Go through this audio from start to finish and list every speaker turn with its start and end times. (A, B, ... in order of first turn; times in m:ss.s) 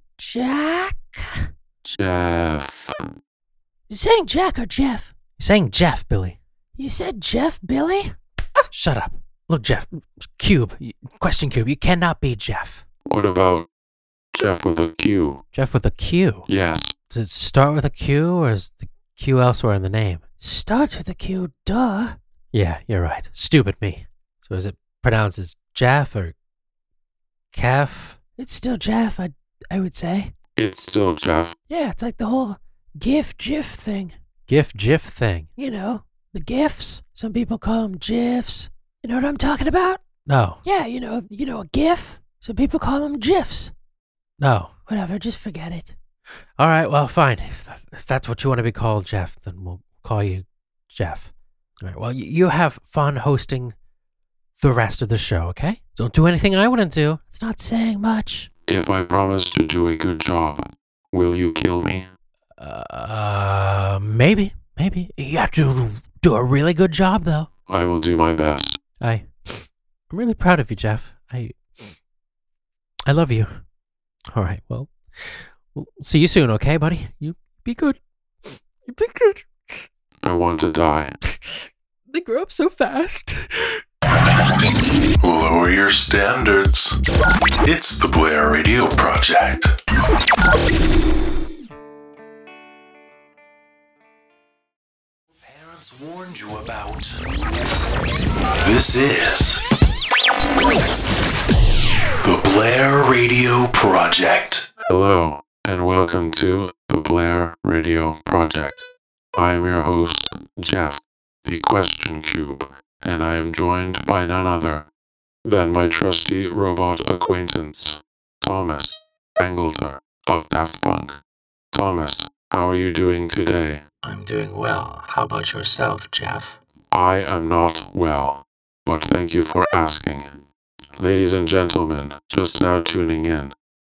0:00.2-0:01.5 A
0:01.8-0:03.0 B
0:03.9-0:05.1 A
0:05.4-0:06.4 C
0:06.8-0:08.1 A
0:08.7-0:12.8 C
0:13.1-0:13.7 B
0:14.3-0:15.4 B
0:15.5-0:16.5 C
0:16.5-0:16.9 B
0:17.1-0:20.2 C
0:20.4-0:22.2 A
0:22.5-0:26.4 C
0:27.5-0:28.2 C
0:28.4-0:30.3 A
0:30.6-0:31.6 B
0:31.7-0:34.2 A
0:34.5-0:35.5 C
0:35.6-0:40.0 A
0:40.2-0:40.6 C
0:40.6-0:43.7 A
0:44.4-0:44.7 C
0:44.9-0:46.0 A
0:46.6-0:53.8 C
0:54.6-0:57.2 C
0:57.3-0:58.5 A
0:58.7-1:02.1 B
1:02.6-1:07.5 C
1:07.7-1:08.8 B
1:09.0-1:11.9 C
1:13.0-1:13.6 C
1:14.3-1:19.9 C
1:20.2-1:21.2 B
1:21.2-1:23.8 C
1:25.2-1:27.0 D
1:27.6-1:29.8 D
1:35.4-1:37.2 D
1:38.6-1:39.6 D
1:42.2-1:44.7 D
1:44.9-1:54.9 B
1:55.4-2:01.2 B
2:01.7-2:03.8 B
2:04.0-2:06.6 E
2:06.9-2:10.4 B
2:11.0-2:13.5 B